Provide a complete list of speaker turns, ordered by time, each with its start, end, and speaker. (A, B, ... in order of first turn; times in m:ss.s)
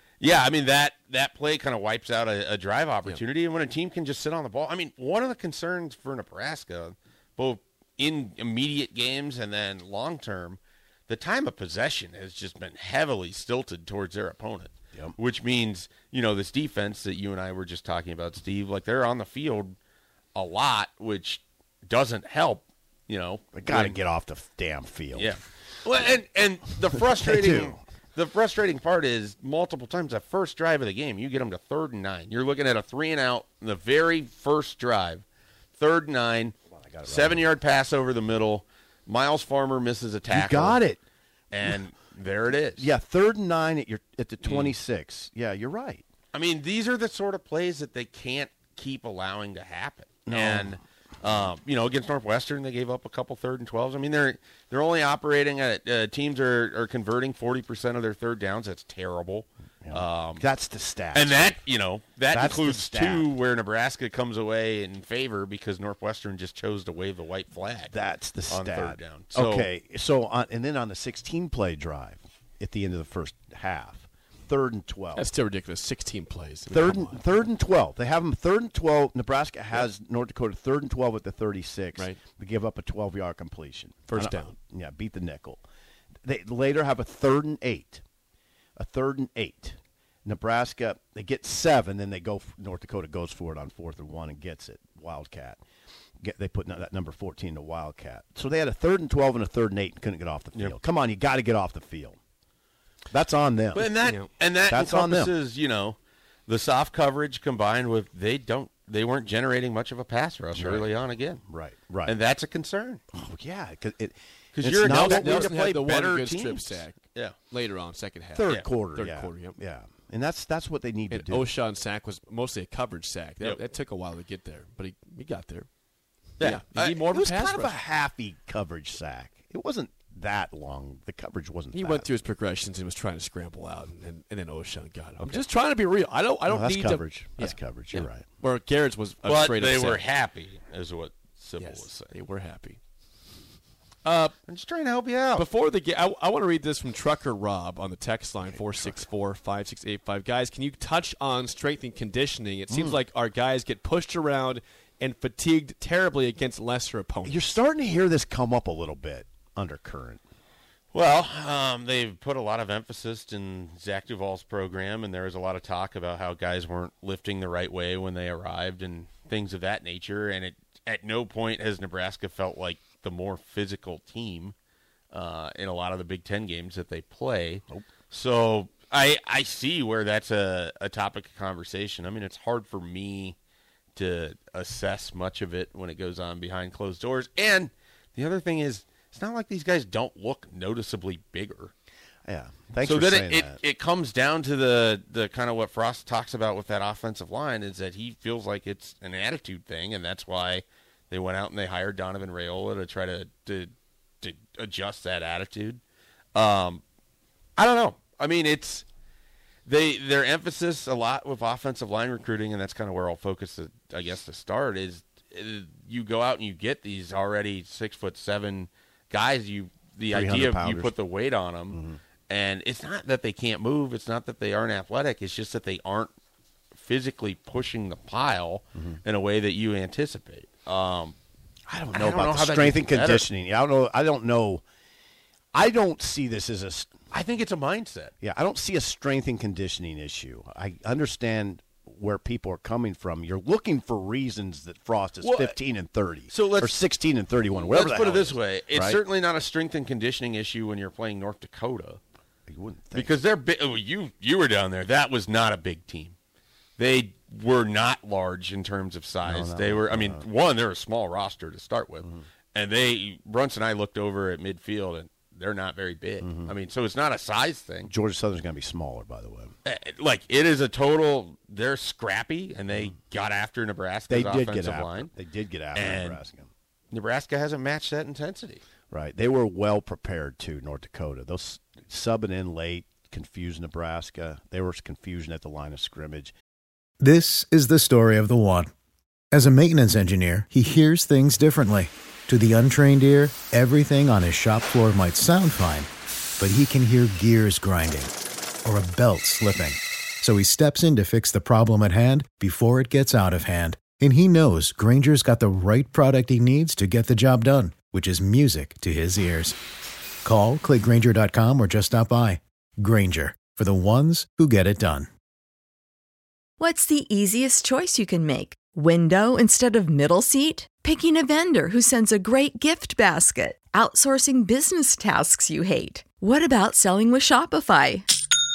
0:00.2-0:19.8 A
0:20.3-0:24.0 A
0:23.6-0:25.4 B
0:25.1-0:35.2 A
0:27.1-0:27.8 B
0:35.8-0:40.8 A
0:36.8-0:37.4 B
0:40.3-0:41.0 B
0:41.5-0:42.9 A
0:42.8-0:46.0 B
0:44.4-0:44.7 A
0:46.3-1:00.4 A
0:50.3-0:50.7 B
0:59.8-1:01.6 B
1:01.1-1:07.9 A
1:02.3-1:03.3 B
1:07.9-1:15.3 B
1:08.5-1:09.7 A
1:15.1-1:17.3 C
1:16.7-1:25.6 B
1:22.0-1:22.2 C
1:24.1-1:24.5 C
1:26.2-1:28.0 B
1:28.8-1:35.6 B
1:36.2-1:42.2 B
1:43.1-1:43.9 B
1:43.7-1:51.4 A
1:44.0-1:44.3 C
1:44.7-1:45.3 B
1:50.5-1:50.9 B
1:51.4-1:52.2 B
1:52.0-1:53.0 A
1:53.1-1:55.5 B
1:54.5-1:57.3 A
1:54.8-1:59.6 C
1:58.3-2:01.5 B
2:01.1-2:05.7 C
2:06.4-2:07.1 A
2:06.4-2:07.8 C
2:07.1-2:12.1 B
2:11.7-2:17.6 C
2:16.5-2:18.2 B
2:18.4-2:20.1 C
2:19.2-2:22.1 A
2:21.6-2:22.8 C
2:24.0-2:24.3 C
2:24.5-2:25.5 A
2:25.3-2:37.6 C
2:28.4-2:29.1 B
2:32.7-2:33.0 B
2:37.2-2:40.2 B
2:40.9-2:54.5 A
2:55.1-3:03.4 A
3:04.0-3:11.7 A
3:12.2-3:13.6 B
3:12.8-3:25.8 A
3:26.3-3:26.8 A
3:27.6-3:28.8 A
3:29.6-3:46.1 A
3:40.1-3:40.9 B
3:41.7-3:42.0 B
3:46.7-3:51.2 A
3:51.7-3:54.6 B
3:51.9-3:53.3 A
3:55.5-3:57.1 B
3:57.1-3:58.1 A
3:58.2-4:09.0 B
4:05.2-4:05.6 A
4:06.3-4:06.8 A
4:07.6-4:12.0 A
4:12.5-4:13.1 B
4:12.9-4:16.1 A
4:16.8-4:27.9 A
4:19.2-4:20.2 B
4:26.2-4:26.5 B
4:27.9-4:29.5 B
4:29.6-4:35.1 A
4:34.1-4:36.5 B
4:35.7-4:36.2 A
4:36.9-4:38.6 A
4:38.9-4:46.3 B
4:47.0-4:48.7 D
4:49.3-4:58.1 D
4:58.6-5:09.6 D
5:10.2-5:15.1 D
5:16.6-5:28.0 E